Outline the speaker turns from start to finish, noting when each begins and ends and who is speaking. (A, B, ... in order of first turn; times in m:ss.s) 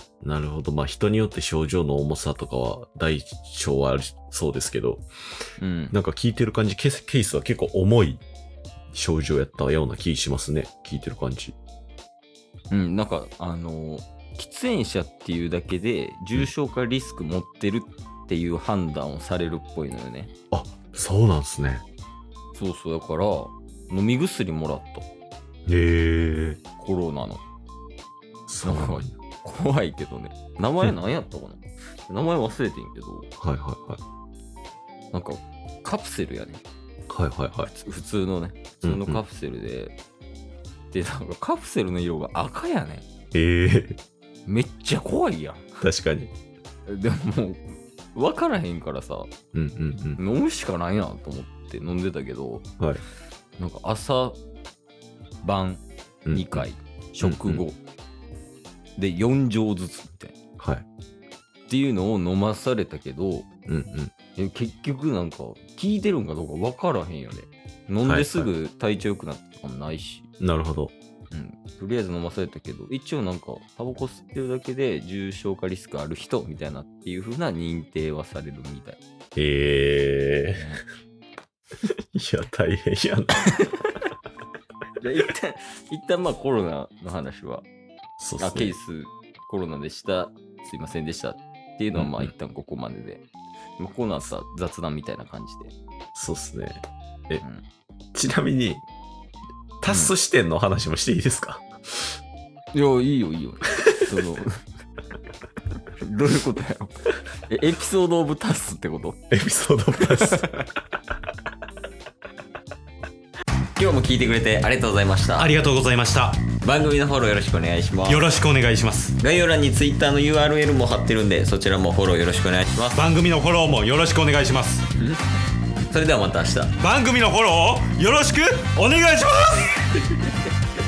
0:00.2-0:05.0 A
0:05.6-0:06.0 B
0:05.9-0:08.2 A
0:08.9-0:11.6 A
0:12.7-0:20.3 B
0:20.5-0:21.8 A
0:22.5-0:25.0 B
0:25.7-0:26.6 A
0:26.8-0:27.4 B
0:28.5-0:29.1 A
0:28.6-0:33.3 B
0:33.4-0:34.0 A
0:35.1-0:36.6 B
0:37.1-0:37.7 A
0:37.6-0:39.9 B
0:38.8-0:39.2 A
0:40.9-0:43.0 B
0:43.3-0:44.0 A
0:44.4-0:45.7 B
0:45.8-0:46.3 A
0:46.9-0:49.3 B
0:49.5-0:50.2 A
0:50.2-0:52.6 B
0:53.6-0:54.4 B
0:55.4-0:57.8 B
0:56.2-0:56.7 A
0:57.2-0:57.6 A
0:59.0-1:00.3 B
1:00.6-1:00.8 A
1:01.7-1:03.5 B
1:03.7-1:04.1 A
1:04.4-1:10.3 B
1:08.0-1:08.5 A
1:10.4-1:10.9 A
1:11.3-1:19.0 B
1:19.4-1:20.7 A
1:20.5-1:20.8 B
1:22.1-1:23.7 A
1:25.0-1:27.6 B
1:28.2-1:28.7 A
1:28.4-1:33.2 B
1:31.9-1:32.3 A
1:33.8-1:35.7 B
1:36.1-1:37.4 A
1:38.1-1:38.8 A
1:39.8-1:42.1 A
1:39.9-1:40.1 B
1:42.7-1:44.6 B
1:46.0-1:49.2 B
1:49.3-1:50.5 A
1:50.0-1:50.7 B
1:53.8-1:55.5 B
1:55.4-1:56.4 C
1:56.6-1:58.3 B
1:58.1-1:59.2 C
1:59.2-2:03.0 B
2:02.9-2:04.8 C
2:05.9-2:06.8 B
2:06.8-2:09.8 C